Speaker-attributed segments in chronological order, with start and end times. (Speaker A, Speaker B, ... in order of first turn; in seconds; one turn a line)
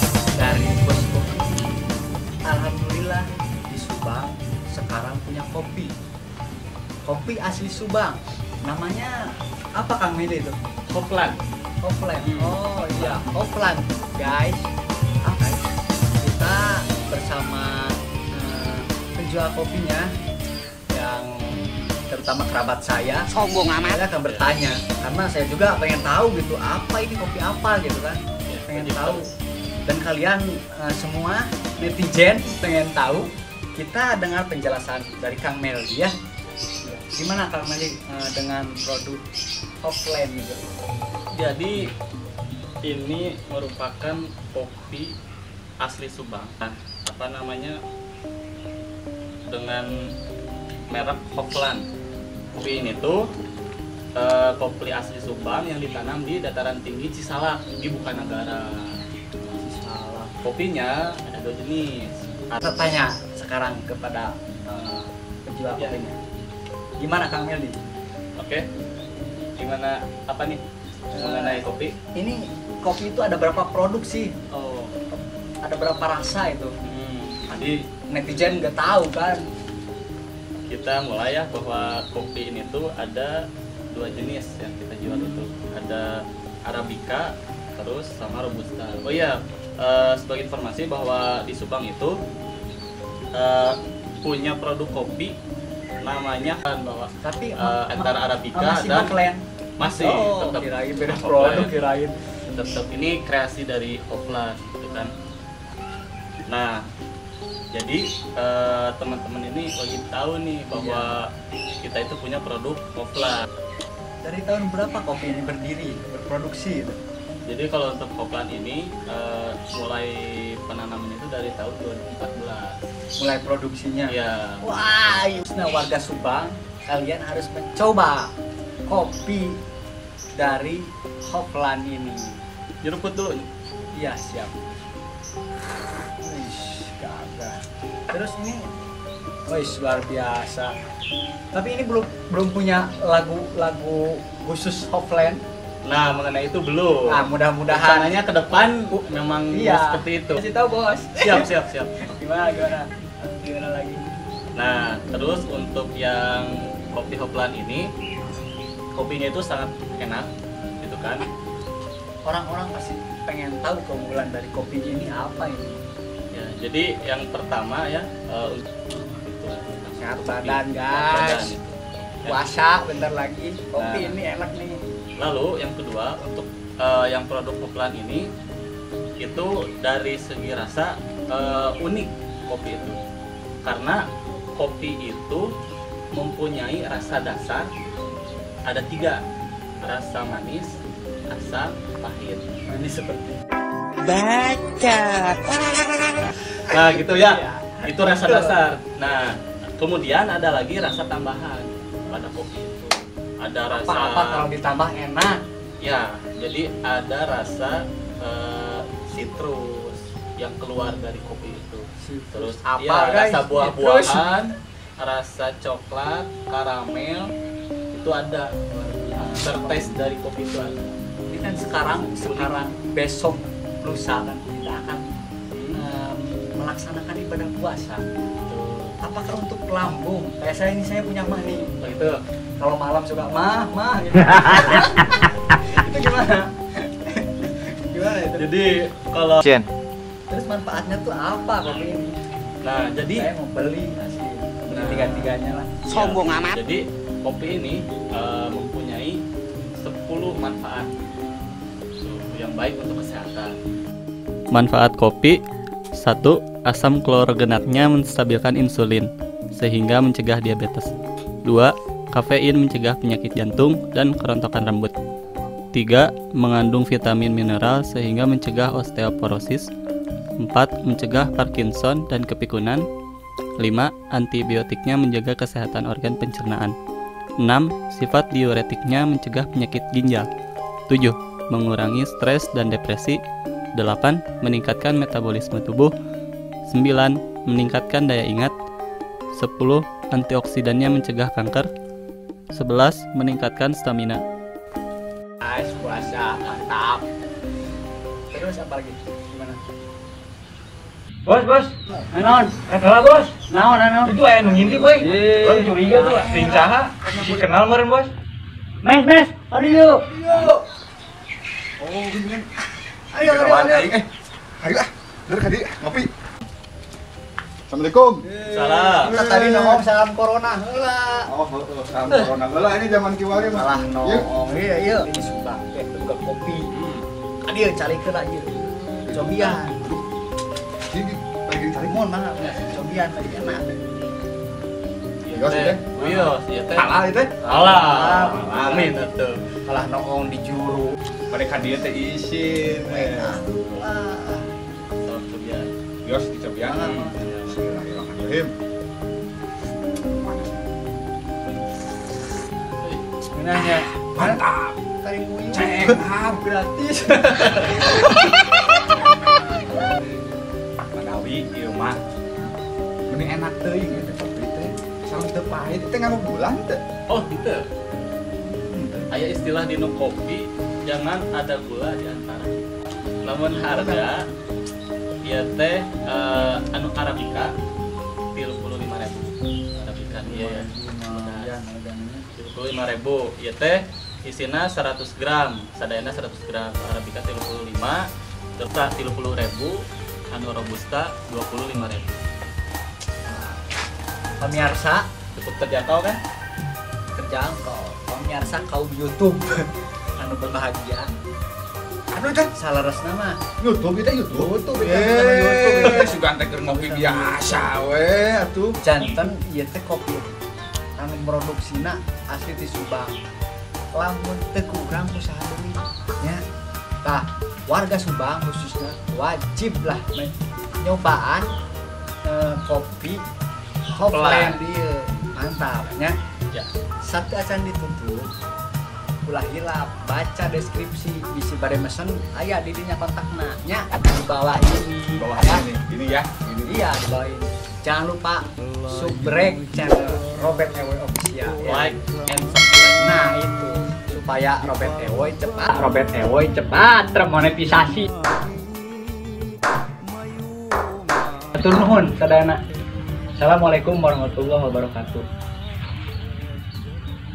Speaker A: 0.3-1.7
Speaker A: 2.4-5.9
Speaker A: 7.0-10.6
Speaker B: 10.9-11.4
Speaker A: 11.8-14.7
Speaker B: 12.2-13.2
Speaker A: 15.2-15.7
Speaker A: 16.2-20.1
Speaker A: 20.9-23.3
Speaker C: 23.3-24.0
Speaker A: 23.8-29.3
Speaker B: 28.5-29.2
Speaker A: 29.9-36.1
Speaker A: 36.8-39.2
Speaker A: 39.8-40.8
Speaker B: 41.3-41.9
Speaker B: 42.8-45.1
Speaker B: 45.8-47.8
Speaker B: 49.5-49.9
Speaker B: 50.9-51.9
Speaker B: 52.5-53.2
Speaker B: 54.2-59.0
Speaker A: 59.4-60.3
Speaker B: 60.4-62.6
Speaker A: 62.6-66.1
Speaker B: 65.8-66.2
Speaker A: 67.0-67.8
Speaker B: 68.4-68.7
Speaker B: 69.6-72.0
Speaker A: 71.1-71.6
Speaker A: 72.2-74.3
Speaker B: 74.5-75.0
Speaker A: 75.1-76.7
Speaker B: 76.8-77.8
Speaker A: 78.1-79.4
Speaker B: 80.7-92.1
Speaker B: 93.3-95.4
Speaker B: 96.0-99.1
Speaker A: 97.2-102.2
Speaker B: 99.8-101.7
Speaker B: 102.5-105.1
Speaker B: 106.5-106.8
Speaker B: 107.7-111.3
Speaker A: 110.7-111.1
Speaker B: 111.8-113.5
Speaker A: 114.2-117.0
Speaker B: 117.5-122.8
Speaker A: 123.2-128.3
Speaker B: 124.1-124.7
Speaker A: 128.9-129.6
Speaker A: 130.4-132.4
Speaker B: 132.8-133.5
Speaker A: 133.9-134.6
Speaker A: 136.2-138.6
Speaker A: 139.5-140.7
Speaker A: 141.5-145.4
Speaker B: 145.8-150.4
Speaker A: 147.1-148.2
Speaker A: 148.9-151.5
Speaker B: 151.2-152.0
Speaker A: 152.1-154.1
Speaker B: 154.6-157.9
Speaker B: 158.9-161.3
Speaker A: 162.2-165.8
Speaker B: 166.3-172.4
Speaker A: 170.0-171.6
Speaker A: 172.2-174.8
Speaker B: 173.8-174.2
Speaker B: 175.2-178.3
Speaker B: 179.2-183.0
Speaker B: 183.6-184.0
Speaker B: 184.6-185.4
Speaker B: 186.1-187.7
Speaker B: 188.7-189.2
Speaker B: 189.8-190.8
Speaker B: 191.3-192.5
Speaker A: 192.7-193.4
Speaker C: 194.0-196.2
Speaker B: 196.7-204.5
Speaker A: 197.0-198.6
Speaker A: 203.7-205.4
Speaker B: 205.8-217.3
Speaker A: 212.0-214.3
Speaker B: 217.9-218.5
Speaker A: 218.7-220.1
Speaker B: 219.2-221.0
Speaker A: 221.3-225.1
Speaker B: 221.8-222.6
Speaker B: 225.5-225.8
Speaker A: 225.7-228.1
Speaker B: 228.5-229.0
Speaker A: 229.0-231.7
Speaker B: 231.8-232.2
Speaker A: 232.6-238.7
Speaker B: 238.4-239.5
Speaker A: 240.3-242.2
Speaker B: 242.6-243.3
Speaker A: 243.1-245.7
Speaker B: 244.7-245.3
Speaker C: 245.9-246.6
Speaker B: 245.9-249.2
Speaker B: 249.8-250.9
Speaker B: 252.0-253.6
Speaker B: 254.5-255.4
Speaker B: 256.0-260.9
Speaker B: 261.4-264.9
Speaker B: 265.7-269.7
Speaker B: 270.4-272.9
Speaker B: 273.6-276.8
Speaker B: 277.4-280.3
Speaker B: 280.9-283.2
Speaker B: 283.8-285.9
Speaker B: 286.7-288.5
Speaker B: 289.3-291.7
Speaker B: 292.5-294.2
Speaker A: 295.4-297.0
Speaker A: 298.3-299.6
Speaker A: 301.3-308.1
Speaker D: 304.4-307.5
Speaker A: 308.8-310.1
Speaker D: 310.1-310.6
Speaker D: 311.8-312.5
Speaker A: 313.1-313.9
Speaker D: 313.2-314.1
Speaker D: 314.6-316.1
Speaker D: 317.7-319.8
Speaker B: 318.5-319.1
Speaker A: 319.0-321.3
Speaker D: 321.3-324.3
Speaker A: 322.1-322.3
Speaker A: 323.5-326.7
Speaker B: 326.7-327.0
Speaker A: 327.4-329.9
Speaker D: 328.8-330.0
Speaker D: 330.9-332.0
Speaker A: 331.7-334.0
Speaker B: 335.2-337.0
Speaker D: 335.3-337.4
Speaker A: 337.4-338.9
Speaker B: 337.5-339.4
Speaker D: 338.4-338.9
Speaker A: 339.7-341.0
Speaker D: 341.3-343.4
Speaker A: 342.8-344.5
Speaker B: 345.0-345.7
Speaker D: 346.0-348.5
Speaker A: 346.6-347.2
Speaker B: 346.8-347.5
Speaker D: 350.1-350.6
Speaker B: 352.8-353.0
Speaker A: 353.3-354.4
Speaker D: 353.6-354.8
Speaker A: 355.0-358.6
Speaker D: 355.5-356.5
Speaker D: 360.9-362.0
Speaker D: 363.1-366.8
Speaker B: 367.1-367.6
Speaker D: 368.4-369.1
Speaker B: 369.1-372.6
Speaker B: 373.2-374.2
Speaker D: 373.6-374.1
Speaker B: 375.2-377.5
Speaker B: 378.3-381.6
Speaker A: 380.3-382.3
Speaker B: 382.4-388.1
Speaker B: 388.6-389.8
Speaker B: 390.3-392.2
Speaker A: 393.2-393.7
Speaker A: 394.4-395.1
Speaker B: 395.4-396.2
Speaker A: 397.1-401.1
Speaker D: 402.1-402.5
Speaker A: 402.6-403.4
Speaker D: 403.6-409.1
Speaker A: 404.3-407.7
Speaker A: 408.8-410.4
Speaker A: 411.0-413.1
Speaker A: 413.9-416.4
Speaker A: 417.0-421.5
Speaker A: 422.2-423.2
Speaker A: 423.9-426.1
Speaker B: 424.1-424.6
Speaker A: 427.0-428.3
Speaker A: 429.2-435.7
Speaker D: 435.2-436.8
Speaker A: 436.6-442.0
Speaker B: 441.6-443.1
Speaker A: 443.0-448.1
Speaker A: 451.5-452.6
Speaker A: 453.4-455.3